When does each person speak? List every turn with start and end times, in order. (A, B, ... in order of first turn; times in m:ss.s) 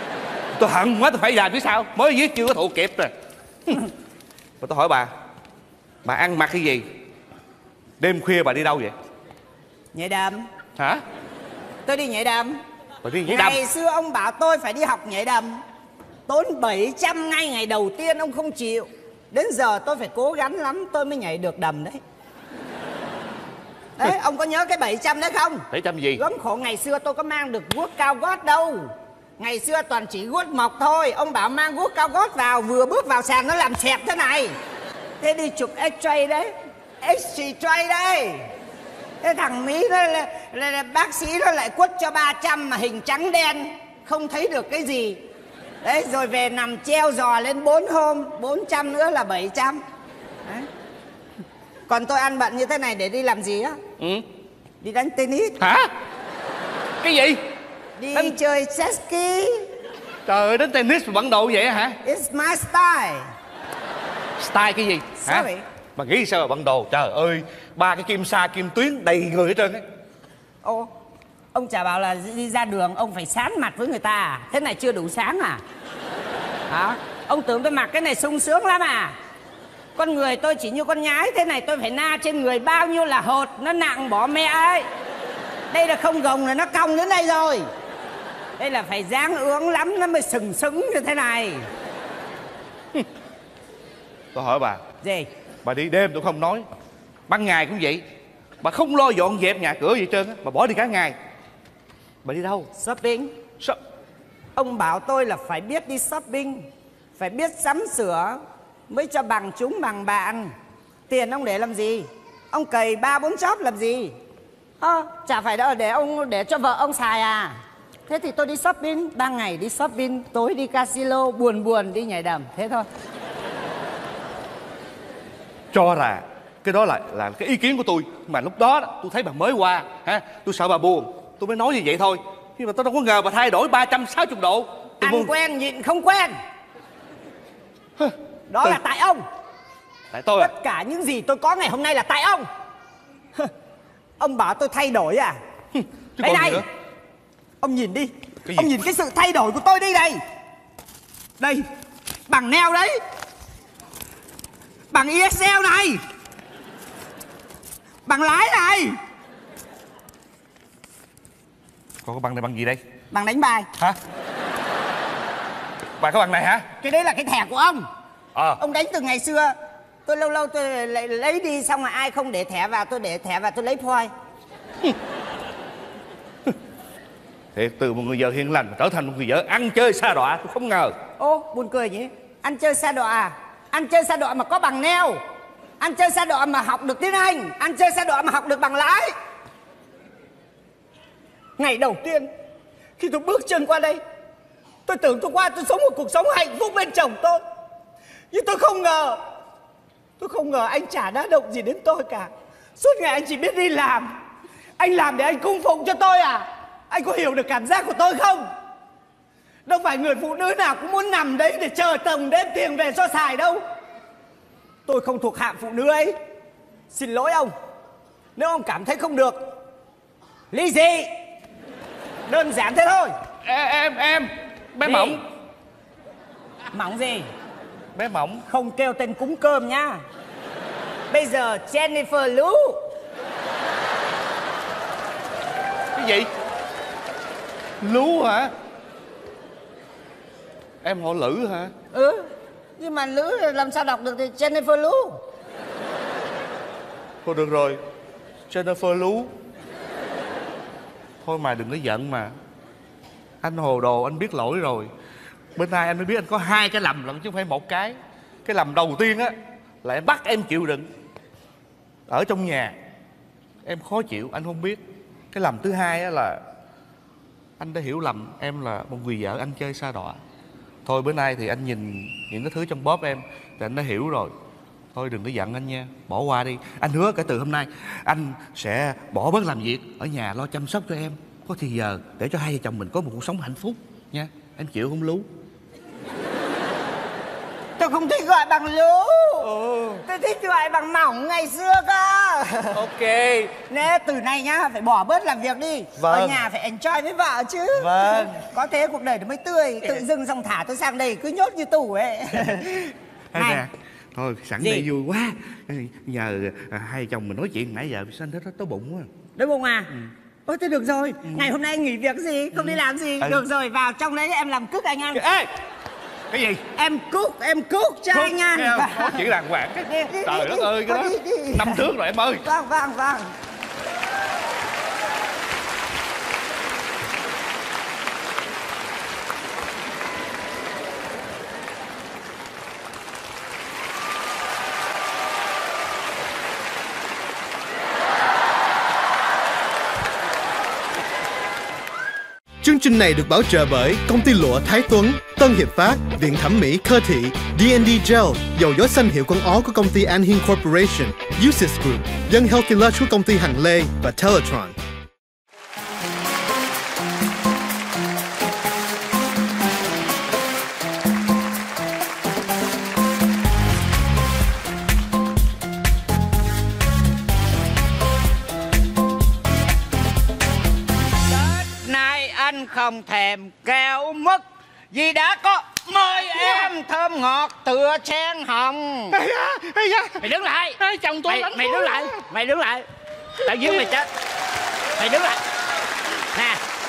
0:00.6-0:03.1 A
0:04.6-0:05.1 A
0:06.0-0:06.9 A
0:08.0-0:09.0 A
0:09.9-0:10.5 B
0:10.8-0:11.0 A
0:11.9-0:12.6 B
0:13.0-0:13.6 A
0:13.3-0:15.6 B
0:16.3-0:22.0 B
0:24.0-0:34.6 B
0:25.7-0:26.2 A
0:35.2-0:38.5 B
0:39.2-0:45.2 B
0:45.8-0:49.8 B
0:51.9-0:53.8 B
0:54.0-0:54.3 A
0:54.8-0:55.6 B
0:55.6-0:55.9 A
0:57.0-0:57.4 A
0:58.0-0:59.7 B
1:00.3-1:02.0 A
1:02.0-1:03.3 B
1:04.4-1:09.8 A
1:05.2-1:05.6 B
1:10.6-1:10.9 B
1:11.5-1:15.6 B
1:16.7-1:19.2 B
1:20.0-1:24.9 B
1:25.7-1:27.7 B
1:28.6-1:31.7 B
1:34.3-1:34.8 A
1:35.0-1:35.3 B
1:35.6-1:36.7 A
1:37.3-1:38.0 A
1:38.6-1:41.2 A
1:42.2-1:42.7 A
1:42.8-1:43.4 B
1:44.6-1:46.7 B
1:47.2-1:50.5 B
1:51.1-1:54.2 B
1:54.8-1:57.6 B
1:58.1-2:02.9 B
2:05.7-2:15.3 A
2:15.0-2:16.4 B
2:18.0-2:18.8 A
2:18.5-2:19.2 B
2:20.1-2:20.5 A
2:20.4-2:22.5 B
2:24.2-2:25.4 B
2:25.7-2:26.7 A
2:26.2-2:26.6 B
2:27.6-2:30.2 B
2:28.5-2:28.7 A
2:31.4-2:31.7 B
2:32.3-2:33.0 B
2:34.9-2:36.0 B
2:38.1-2:39.0 B
2:42.0-2:42.8 A
2:43.1-2:43.7 B
2:46.0-2:46.7 A
2:46.8-2:47.9 B
2:48.4-2:48.6 A
2:48.6-2:49.5 B
2:50.1-2:54.1 B
2:57.5-3:01.0 A
3:01.2-3:05.2 B
3:05.8-3:09.2 B
3:11.6-3:12.3 B
3:13.0-3:14.0 B
3:14.9-3:17.4 B
3:18.3-3:19.2 B
3:20.2-3:24.1 B
3:24.8-3:28.5 B
3:29.7-3:33.6 B
3:34.9-3:36.2 B
3:36.9-3:37.5 B
3:38.4-3:39.4 B
3:40.5-3:41.1 B
3:42.3-3:43.1 B
3:43.4-3:45.2 A
3:44.8-3:45.2 B
3:46.7-3:47.3 B
3:48.0-3:48.5 A
3:48.5-3:50.0 B
3:51.1-3:52.8 B
3:55.9-3:56.3 A
3:57.8-3:58.5 A
4:00.8-4:01.7 A
4:01.9-4:02.3 B
4:02.8-4:05.2 B
4:07.2-4:07.8 A
4:08.5-4:09.3 A
4:11.2-4:12.3 A
4:13.4-4:14.9 A
4:15.6-4:20.9 A
4:22.1-4:22.8 A
4:23.6-4:24.8 A
4:25.3-4:26.4 A
4:27.6-4:30.2 A
4:30.8-4:34.3 A
4:34.9-4:45.3 A
4:47.8-4:49.5 B
4:49.4-4:50.0 A
4:50.0-4:52.8 B
4:52.7-4:53.6 A
4:53.7-5:03.6 B
4:56.0-4:56.4 A
4:57.8-4:58.4 A
5:03.3-5:09.1 A
5:04.6-5:04.9 B
5:09.4-5:09.9 B
5:10.5-5:15.3 B
5:11.2-5:11.5 A
5:12.5-5:13.4 A
5:15.1-5:15.5 A
5:16.3-5:16.6 A
5:16.8-5:19.2 B
5:18.1-5:22.5 A
5:19.9-5:21.8 B
5:22.4-5:23.3 B
5:42.6-5:54.8 C
6:11.3-6:19.2 B
6:19.1-6:20.3 A
6:20.2-6:22.9 B
6:20.8-6:22.2 A
6:23.4-6:24.1 B
6:25.0-6:25.4 B
6:26.3-6:26.6 B